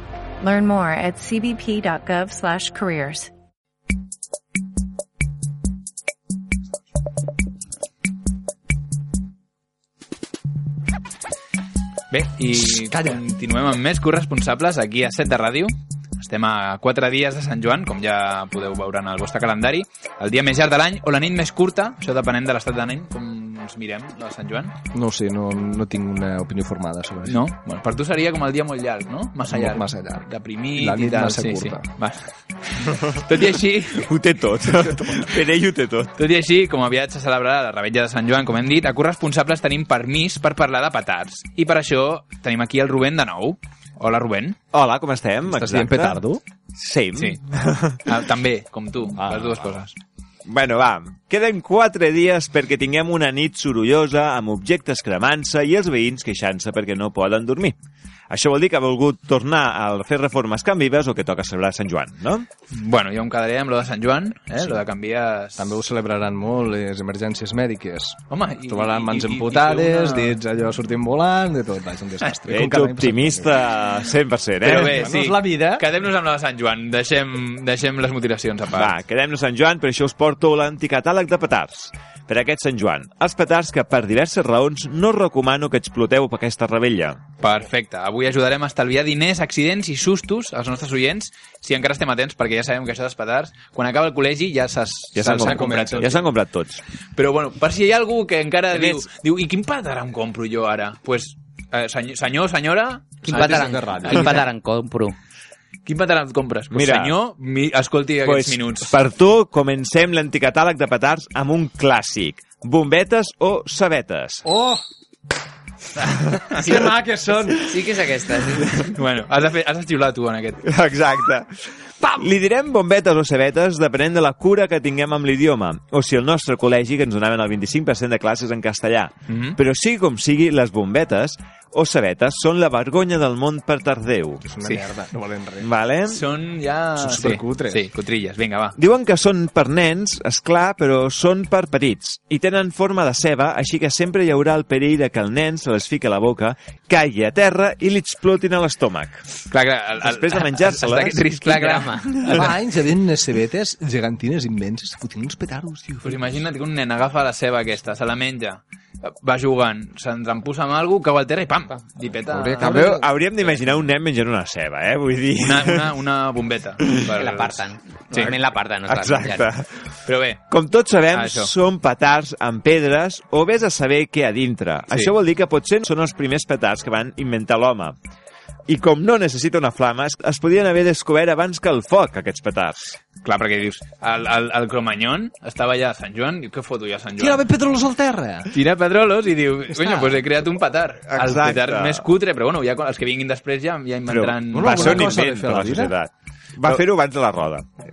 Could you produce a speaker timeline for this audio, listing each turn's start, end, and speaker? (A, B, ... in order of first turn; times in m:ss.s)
0:00.4-0:03.3 A
0:12.1-0:24.8 B
0:12.6-0:13.2 C
0:24.9-0:27.4 C
0:27.2-0:32.2 B
0:29.4-0:31.8 C
0:32.8-0:34.1 B
0:34.0-0:36.2 D
0:36.2-0:44.6 B
0:44.7-0:46.2 D
0:45.5-0:46.4 C
0:46.8-0:48.1 D
0:47.2-0:47.4 B
0:48.0-0:50.0 B
0:49.2-0:49.7 C
0:50.5-0:57.8 D
0:58.3-1:02.5 D
1:02.7-1:05.7 B
1:05.6-1:13.6 C
1:08.3-1:10.4 B
1:12.5-1:15.1 D
1:14.6-1:15.9 C
1:14.6-1:18.9 B
1:18.7-1:27.2 D
1:27.4-1:36.2 B
1:35.2-1:36.8 D
1:35.4-1:36.3 C
1:37.2-1:44.5 B
1:43.3-1:44.5 C
1:43.3-1:45.2 E
1:45.8-1:49.0 B
1:46.7-1:47.2 D
1:48.2-1:54.4 D
1:54.4-1:54.8 C
1:56.5-1:57.7 C
1:57.6-1:58.8 E
1:58.8-2:00.6 B
2:00.6-2:01.5 D
2:02.0-2:14.4 D
2:09.3-2:09.6 B
2:14.4-2:15.7 C
2:15.6-2:16.2 D
2:16.1-2:18.8 B
2:17.0-2:17.9 C
2:18.8-2:29.2 D
2:29.5-2:32.5 B
2:30.0-2:31.5 D
2:31.4-2:32.3 E
2:32.2-2:32.5 D
2:32.2-2:36.4 C
2:36.0-2:42.9 B
2:42.3-2:43.0 C
2:42.6-2:45.9 D
2:43.4-2:43.9 B
2:45.4-2:48.4 B
2:47.2-2:49.5 E
2:48.1-2:49.7 D
2:50.1-2:50.4 B
2:50.5-2:58.0 D
2:51.1-2:51.5 B
2:58.7-3:03.0 D
3:03.2-3:07.5 B
3:07.2-3:08.5 C
3:08.5-3:15.2 B
3:09.8-3:10.2 C
3:11.1-3:12.1 D
3:14.1-3:17.7 D
3:14.5-3:16.0 C